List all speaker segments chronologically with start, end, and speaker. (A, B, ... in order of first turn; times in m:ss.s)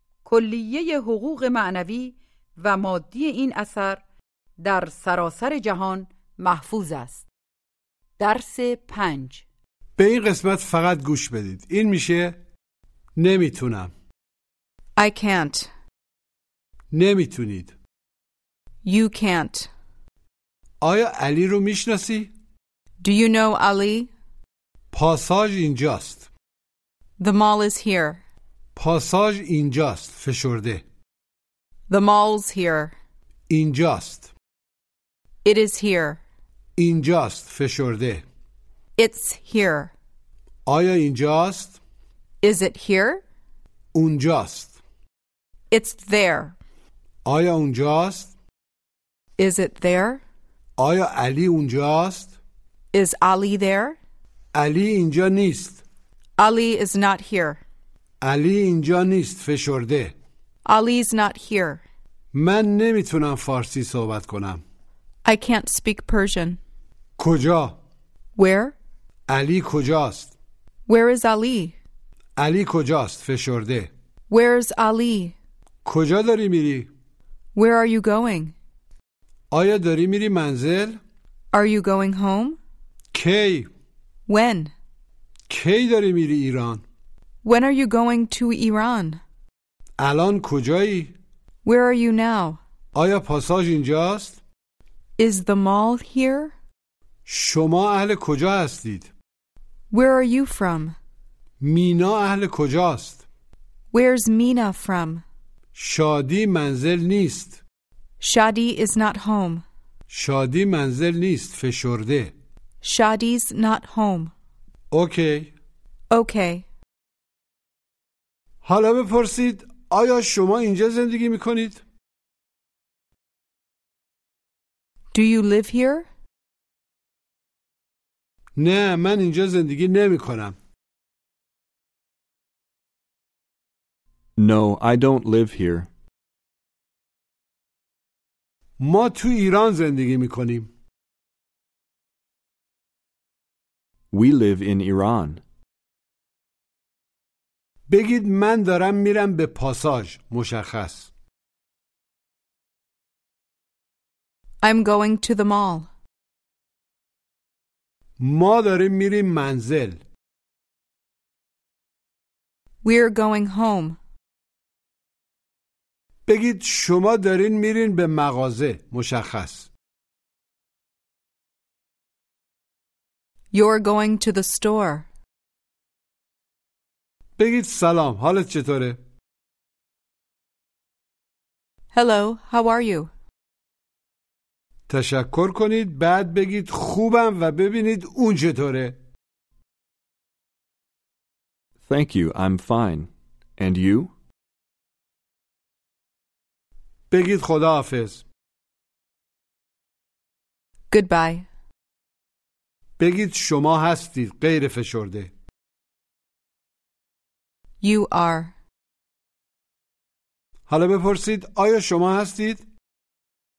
0:00.2-0:04.0 A
0:04.6-0:07.2 A
0:08.2-0:09.4 A
0:10.0-0:12.4 B
0:13.2-0:13.9 B
0:15.0-0:15.7 C
0:16.9-0:17.7 B
0:18.8-0:19.7 C
0:20.8-0:22.3 B
0:23.0-0:24.1 C
0:24.9-0:26.3 B
0:27.2-0:28.2 C
0:28.8-0:30.8 B
0:31.9-0:32.9 C
0:33.5-0:34.3 B
0:35.4-0:36.2 C
0:36.8-0:38.2 B
0:39.0-0:39.9 C
0:40.6-0:41.8 B
0:42.4-0:43.2 C
0:43.9-0:44.8 B
0:45.7-0:46.5 C
0:47.2-0:48.3 B
0:49.4-0:50.2 C
0:50.8-0:52.3 B
0:52.9-0:54.0 C
0:54.5-0:55.8 B
0:56.4-0:57.6 C
0:58.2-1:00.1 B
1:00.6-1:01.8 C
1:02.3-1:04.6 B
1:05.2-1:06.6 C
1:07.2-1:07.8 B
1:08.4-1:08.7 C
1:09.3-1:10.3 B
1:10.9-1:11.7 C
1:12.4-1:13.9 B
1:14.3-1:15.3 C
1:15.8-1:16.9 B
1:17.5-1:18.5 C
1:19.5-1:21.0 B
1:21.5-1:22.6 C
1:23.1-1:23.7 B
1:24.3-1:24.7 C
1:25.5-1:26.8 B
1:27.4-1:29.2 C
1:30.0-1:31.1 B
1:31.6-1:32.6 C
1:32.9-1:34.4 B
1:35.2-1:36.5 C
1:37.2-1:39.1 B
1:39.9-1:40.9 C
1:41.6-1:43.2 B
1:43.9-1:45.2 C
1:45.7-1:47.6 B
1:48.2-1:49.6 C
1:50.1-1:52.3 B
1:52.8-1:54.3 C
1:54.9-1:55.5 B
1:56.1-1:56.6 C
1:58.6-2:01.8 B
2:05.1-2:06.1 C
2:08.6-2:10.6 B
2:14.4-2:15.9 D
2:18.8-2:20.7 B
2:24.1-2:25.4 D
2:27.9-2:31.1 B
2:34.6-2:35.9 C
2:38.2-2:40.0 B
2:42.8-2:44.0 C
2:46.2-2:49.7 B
2:53.5-2:55.1 C
2:57.4-2:59.0 B
3:01.9-3:03.1 C
3:04.9-3:09.0 B
3:11.9-3:14.1 D
3:17.1-3:18.2 B
3:20.9-3:21.4 C
3:23.0-3:25.3 B
3:27.8-3:28.5 C
3:30.7-3:32.6 B